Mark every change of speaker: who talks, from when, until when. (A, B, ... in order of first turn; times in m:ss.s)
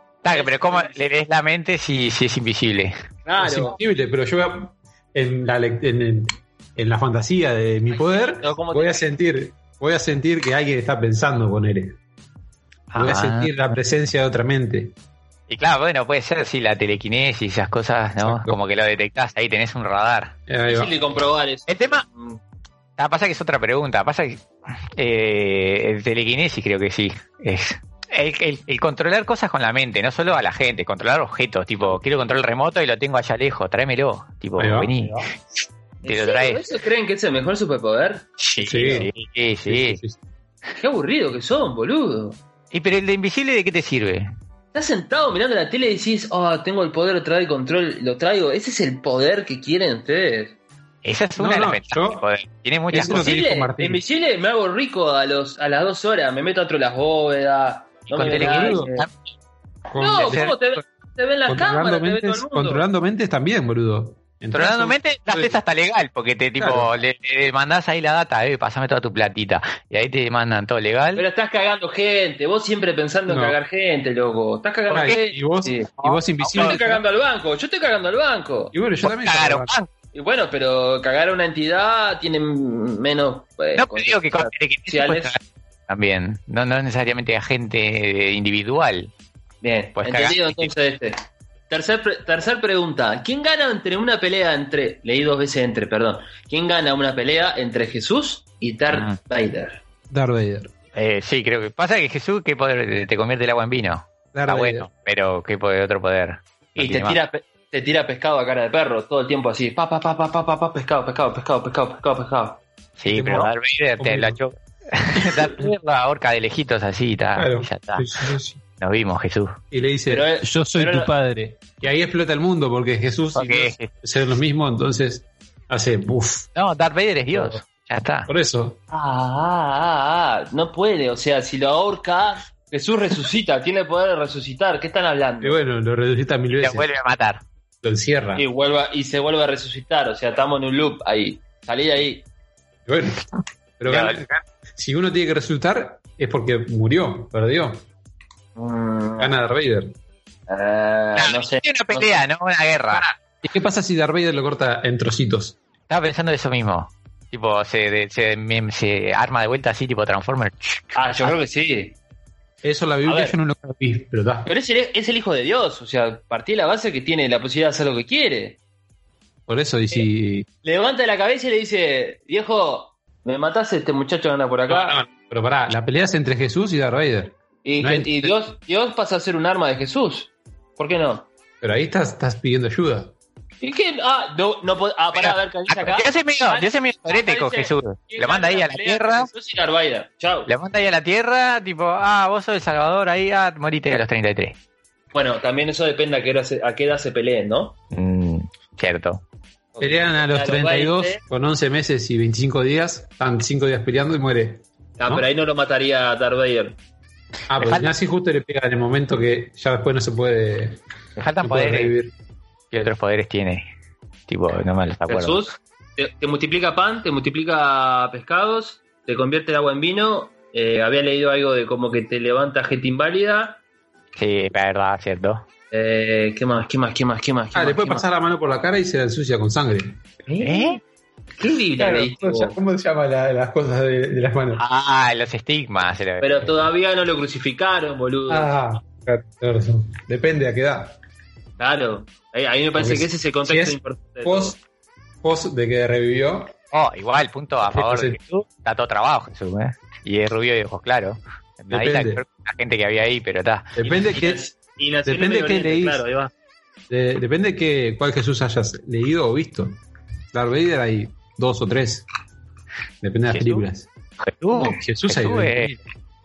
0:00.2-0:02.9 A
0:00.3-0:01.0 B
0:03.2-0:03.8 B
0:03.4-0:12.0 C
0:07.9-0:09.0 B
0:12.9-0:13.5 A
0:13.0-0:14.9 C
0:15.5-0:20.3 A
0:18.2-0:18.6 C
0:20.5-0:20.9 C
0:20.7-0:22.4 B
0:21.7-0:22.0 A
0:23.0-0:35.3 A
0:34.6-0:34.9 C
0:36.0-0:36.6 A
0:36.0-0:38.3 B
0:38.4-0:40.0 A
0:38.6-0:39.1 C
0:39.6-0:40.2 C
0:40.8-0:42.4 B
0:42.7-0:44.3 A
0:44.7-0:50.6 B
0:51.0-0:53.3 A
0:51.4-0:52.2 C
0:52.9-0:54.0 C
0:52.9-0:59.0 B
0:58.1-0:59.1 A
0:58.3-0:58.9 C
0:59.9-1:00.6 C
1:00.0-1:02.8 B
1:00.2-1:00.5 A
1:01.5-1:05.6 C
1:04.5-1:11.2 A
1:06.6-1:06.9 C
1:11.2-1:15.9 B
1:13.3-1:13.6 C
1:14.9-1:17.0 C
1:16.0-1:16.8 A
1:16.5-1:18.7 B
1:18.7-1:19.7 C
1:19.0-1:19.9 A
1:20.1-1:25.4 B
1:23.7-1:29.1 A
1:29.6-1:39.8 B
1:30.0-1:30.7 A
1:38.9-1:39.2 A
1:40.1-1:40.7 C
1:40.9-1:47.2 A
1:44.3-1:44.9 C
1:46.8-1:52.6 B
1:53.0-1:59.6 A
1:53.0-1:54.4 C
1:55.2-1:55.7 C
1:57.4-1:58.6 C
1:59.7-2:06.5 C
2:00.1-2:01.1 B
2:03.3-2:03.9 A
2:06.5-2:08.3 A
2:08.3-2:08.8 C
2:08.9-2:15.6 B
2:15.4-2:16.9 C
2:16.6-2:17.4 A
2:17.8-2:18.4 C
2:18.4-2:22.2 B
2:22.8-2:23.2 C
2:23.8-2:27.8 C
2:23.8-2:24.2 A
2:28.6-2:29.4 B
2:29.2-2:29.9 C
2:30.5-2:32.2 B
2:31.1-2:33.1 A
2:33.4-2:35.6 C
2:35.9-2:41.4 A
2:40.9-2:42.0 B
2:42.6-2:44.5 C
2:43.0-2:43.4 B
2:44.4-2:48.6 B
2:49.5-2:50.4 C
2:50.6-2:55.0 B
2:54.7-2:58.3 C
2:57.6-3:01.3 B
3:01.6-3:03.1 C
3:03.6-3:10.5 B
3:05.1-3:09.3 A
3:10.5-3:14.6 A
3:15.1-3:17.8 B
3:17.9-3:19.2 A
3:19.7-3:21.2 B
3:19.8-3:25.2 C
3:25.0-3:26.8 B
3:27.5-3:30.8 C
3:27.6-3:27.9 A
3:31.2-3:31.9 A
3:31.4-3:32.1 C
3:32.7-3:33.6 A
3:34.3-3:35.5 A
3:35.1-3:43.6 B
3:44.2-3:45.4 A
3:45.7-3:48.0 B
3:47.5-3:50.0 C
3:50.2-3:50.8 B
3:50.4-3:50.8 A
3:51.4-3:52.6 B
3:51.8-3:54.6 C
3:54.6-3:56.7 A
3:56.2-3:58.5 B
3:58.3-4:01.0 C
4:01.6-4:04.6 B
4:02.8-4:04.6 C
4:05.2-4:06.5 C
4:06.7-4:13.7 A
4:07.6-4:08.2 C
4:11.7-4:12.2 C
4:13.8-4:14.4 C
4:13.8-4:16.3 B
4:15.0-4:16.0 C
4:16.9-4:19.8 C
4:20.3-4:22.0 C
4:23.0-4:23.9 C
4:23.3-4:23.6 A
4:24.2-4:25.8 A
4:24.5-4:25.8 C